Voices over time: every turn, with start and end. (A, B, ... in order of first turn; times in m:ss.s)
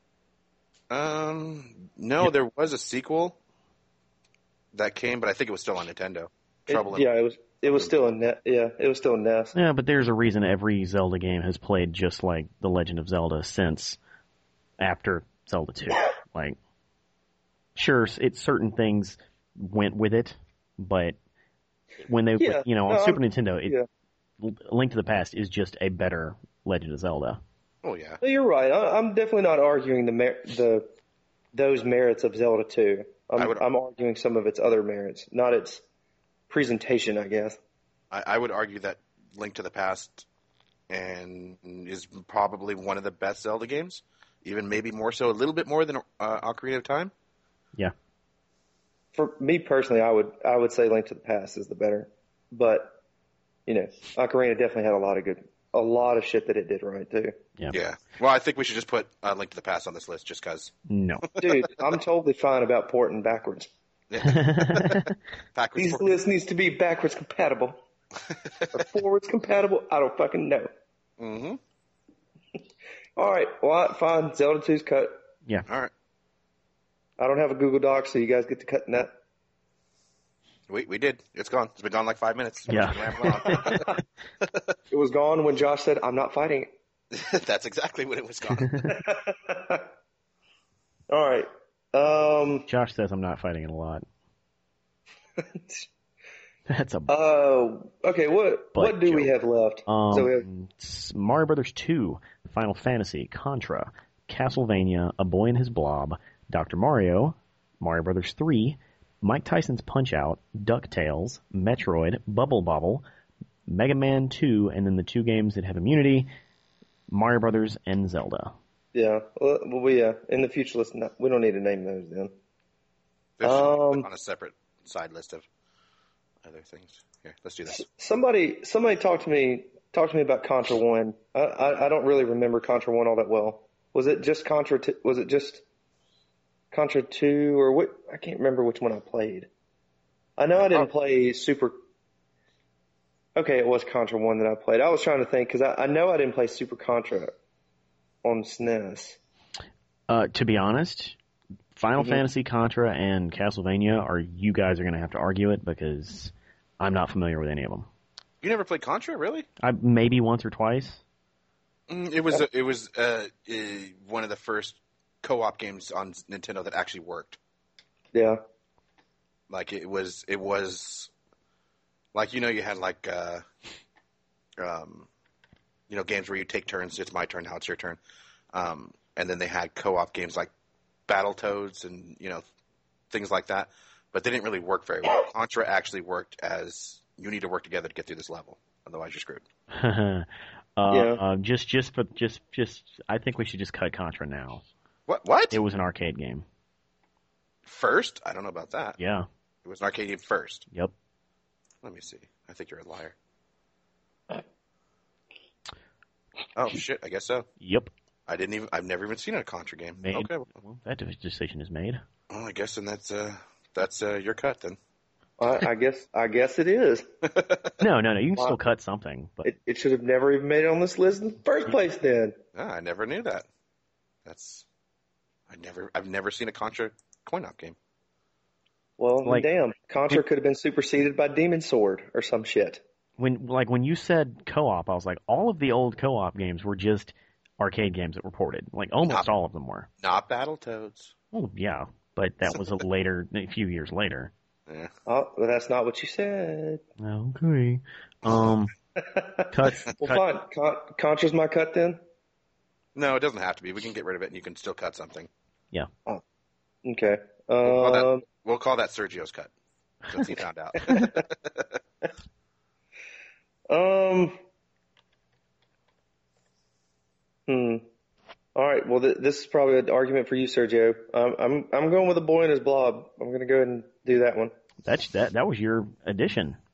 0:00.9-0:03.4 A
0:04.7-0:07.1 A
0:06.7-0:09.6 B
0:09.6-0:14.0 C
0:14.8-0:16.6 C
0:17.8-0:21.2 C
0:22.0-0:23.8 C
0:22.4-0:23.9 B
0:24.4-0:27.4 C
0:27.8-0:28.2 A
0:28.2-0:30.9 B
0:31.5-0:35.8 B
0:33.4-0:33.6 A
0:36.5-0:37.6 B
0:38.1-0:40.3 A
0:40.9-0:47.1 A
0:49.2-0:53.0 B
0:53.7-0:57.4 B
0:57.7-1:00.7 A
1:00.9-1:01.3 C
1:01.3-1:01.7 A
1:01.4-1:03.7 B
1:04.1-1:06.2 A
1:04.2-1:05.2 C
1:05.8-1:07.8 B
1:08.3-1:08.9 A
1:08.7-1:10.7 B
1:11.2-1:11.6 A
1:13.2-1:15.1 B
1:15.7-1:15.9 A
1:17.2-1:19.1 B
1:20.7-1:23.9 A
1:22.7-1:24.0 C
1:23.5-1:24.0 B
1:24.4-1:24.8 A
1:24.9-1:26.7 B
1:27.1-1:28.9 A
1:28.5-1:28.9 C
1:28.9-1:29.9 B
1:31.1-1:32.7 B
1:32.7-1:34.0 C
1:35.4-1:35.9 B
1:36.7-1:37.2 C
1:37.1-1:40.5 B
1:38.8-1:39.3 C
1:39.9-1:53.0 C
1:53.7-1:56.3 C
1:57.1-1:58.5 C
1:58.9-2:02.3 B
2:03.4-2:05.5 A
2:03.4-2:04.1 B
2:06.4-2:07.8 A
2:07.7-2:15.6 B
2:16.7-2:19.5 B
2:20.4-2:21.8 B
2:23.4-2:27.4 B
2:28.2-2:29.2 B
2:30.1-2:31.2 C
2:31.8-2:37.9 C
2:32.0-2:32.2 B
2:38.4-2:39.5 A
2:39.6-2:41.0 C
2:41.9-2:47.4 A
2:48.1-2:48.4 B
2:49.5-2:51.1 A
2:52.1-2:53.4 A
2:54.6-2:55.1 A
2:55.9-2:58.0 A
2:58.5-3:00.5 A
3:01.1-3:02.4 A
3:03.1-3:09.4 A
3:09.7-3:14.6 C
3:10.9-3:11.2 B
3:15.1-3:15.6 A
3:15.5-3:16.4 C
3:17.6-3:19.0 A
3:19.0-3:19.3 C
3:19.6-3:20.7 A
3:21.8-3:23.2 A
3:26.6-3:27.5 A
3:27.6-3:27.9 C
3:28.3-3:30.5 A
3:30.0-3:32.0 C
3:32.3-3:34.8 A
3:35.4-3:37.1 B
3:37.3-3:37.7 A
3:37.8-3:39.5 C
3:39.4-3:42.4 B
3:42.6-3:43.5 A
3:44.2-3:44.7 A
3:45.5-3:47.8 A
3:49.0-3:52.8 B
3:53.2-3:59.9 C
4:00.0-4:01.1 A
4:01.3-4:04.3 C
4:04.7-4:04.9 A
4:05.1-4:06.8 B
4:07.0-4:08.7 C
4:08.2-4:08.5 A
4:09.0-4:12.0 B
4:09.5-4:10.2 C
4:13.0-4:15.3 A
4:16.8-4:18.2 B
4:17.6-4:19.5 A
4:20.1-4:21.8 A
4:23.7-4:24.4 B
4:27.5-4:27.8 B
4:28.6-4:34.5 B
4:34.8-4:36.6 C